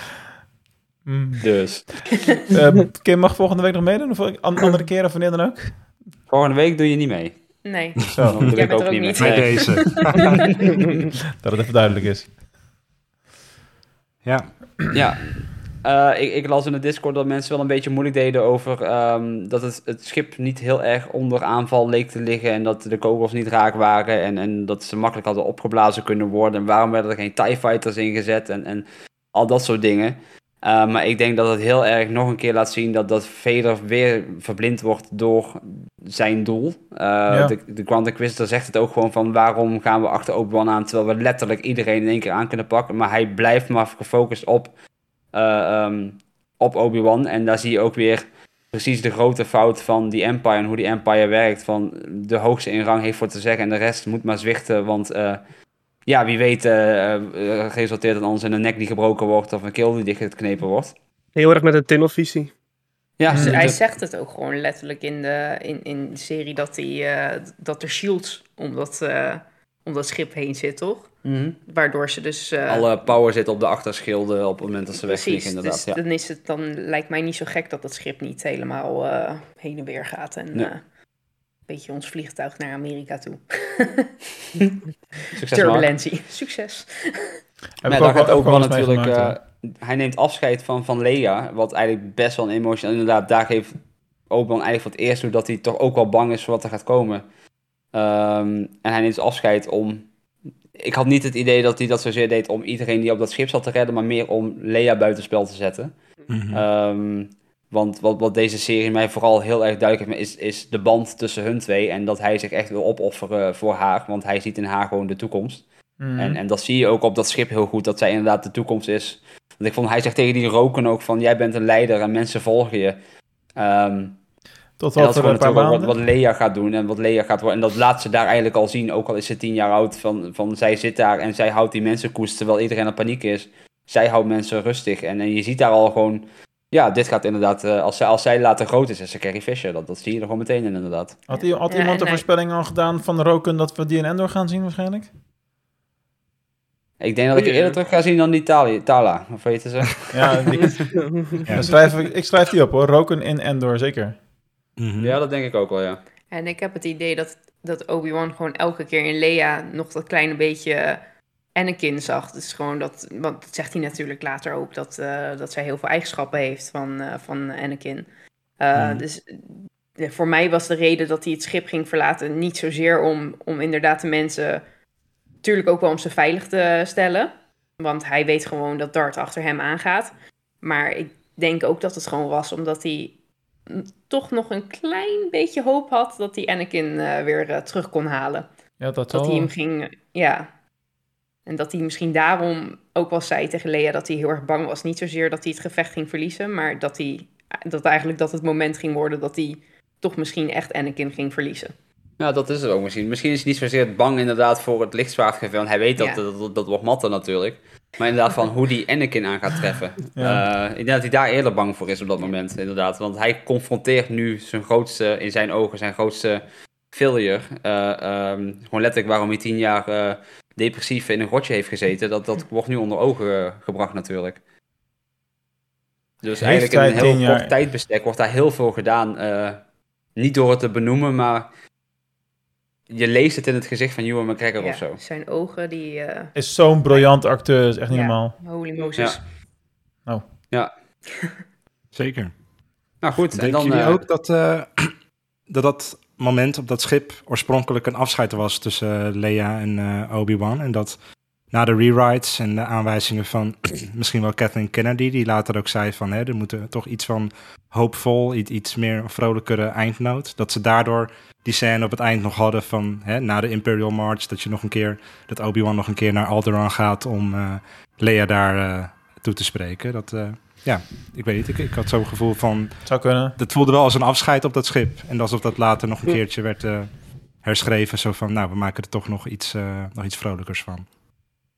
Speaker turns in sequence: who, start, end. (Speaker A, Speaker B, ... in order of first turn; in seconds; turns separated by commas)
Speaker A: 1.1-5.8, Speaker B: 1.4-2.2, Speaker B: 6.3-7.7, Speaker C: 7.6-10.5, Speaker D: 8.1-8.5, Speaker A: 8.1-8.4, Speaker B: 8.2-10.7, Speaker D: 9.2-10.5, Speaker A: 11.4-12.4, Speaker D: 14.2-14.9, Speaker B: 14.9-44.7, Speaker A: 37.3-37.5, Speaker B: 45.3-55.4, Speaker B: 56.1-60.9, Speaker E: 61.4-62.5, Speaker B: 63.2-63.8, Speaker A: 63.3-63.7, Speaker C: 63.3-71.1, Speaker B: 71.2-71.6, Speaker C: 71.6-72.8, Speaker B: 72.7-76.0, Speaker C: 75.0-80.8, Speaker C: 81.7-84.1, Speaker B: 85.3-85.9, Speaker C: 85.5-87.2, Speaker A: 87.8-89.4, Speaker B: 87.9-97.3, Speaker B: 97.9-100.1, Speaker B: 100.8-105.9, Speaker D: 106.3-106.7, Speaker B: 106.5-115.7, Speaker A: 116.0-116.4, Speaker B: 116.2-123.0, Speaker B: 123.6-124.2, Speaker A: 124.8-125.9, Speaker B: 125.0-141.2, Speaker A: 141.3-145.1, Speaker C: 141.3-142.2, Speaker B: 147.0-150.8, Speaker E: 147.3-147.8, Speaker A: 150.1-151.0, Speaker E: 151.0-151.4, Speaker A: 151.5-154.2, Speaker D: 154.8-155.2, Speaker B: 155.0-156.0, Speaker C: 156.3-161.0, Speaker C: 161.6-168.1, Speaker C: 168.6-174.6, Speaker D: 168.8-169.1, Speaker C: 175.4-183.2, Speaker C: 183.7-188.5, Speaker A: 188.8-189.5, Speaker C: 189.1-190.5, Speaker C: 191.5-201.7, Speaker B: 202.2-224.4, Speaker C: 206.0-206.2, Speaker A: 210.2-210.4, Speaker B: 226.2-229.6, Speaker A: 226.4-227.5, Speaker B: 230.2-231.5, Speaker B: 232.9-235.0, Speaker C: 234.6-236.3, Speaker A: 236.3-238.4, Speaker C: 236.9-237.2, Speaker C: 237.9-239.3, Speaker A: 240.1-240.5, Speaker D: 241.9-242.3, Speaker B: 243.0-244.0, Speaker D: 243.3-251.0, Speaker D: 251.5-280.9, Speaker A: 272.9-273.4